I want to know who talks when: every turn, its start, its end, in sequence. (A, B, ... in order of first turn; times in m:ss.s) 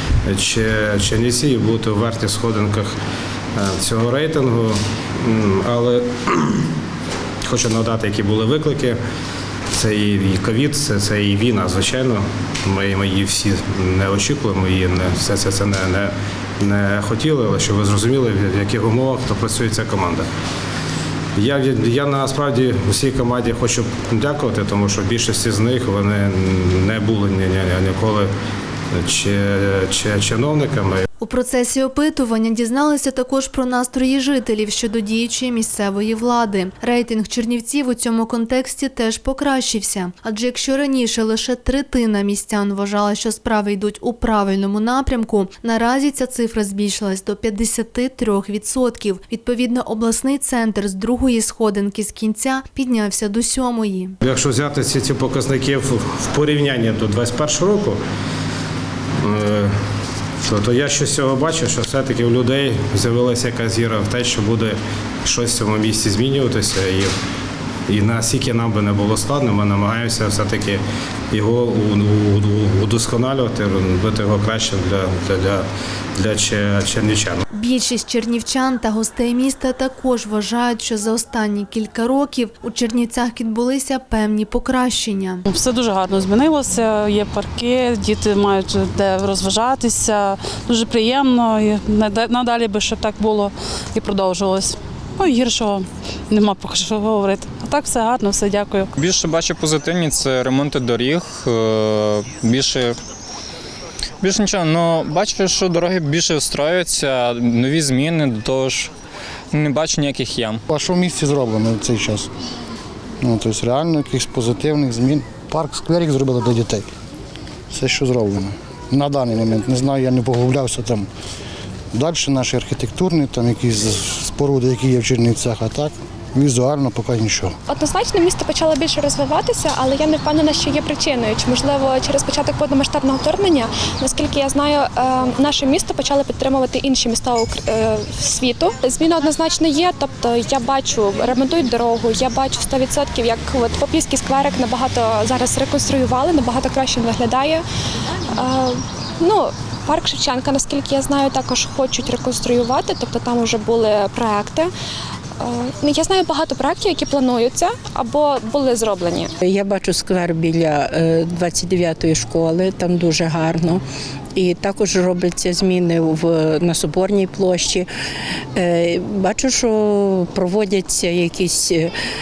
0:00.3-0:02.9 A
0:03.6-0:06.6 A
0:07.4-0:09.0 A
0:09.7-0:20.2 A
0:21.4-0:28.3 A
0:28.9-0:31.0 A
0:31.2-0:54.2 B
0:54.2-0:58.0 A
0:59.2-0:59.7 A
1:00.4-1:07.1 A
1:07.9-1:10.8 A
1:11.3-1:15.6 A
1:16.2-1:17.4 A
1:17.5-1:25.4 B
1:25.5-1:38.9 C
1:39.0-1:43.0 D
1:44.2-1:48.9 D
1:49.5-1:50.6 D
1:50.7-1:52.3 E
1:53.2-1:56.8 E
1:57.7-2:01.1 E
2:01.9-2:07.5 E
2:07.7-2:27.6 F
2:28.3-2:34.7 F
2:35.4-2:39.3 F
2:39.4-2:43.8 G
2:44.3-2:47.9 G
2:48.5-2:51.9 G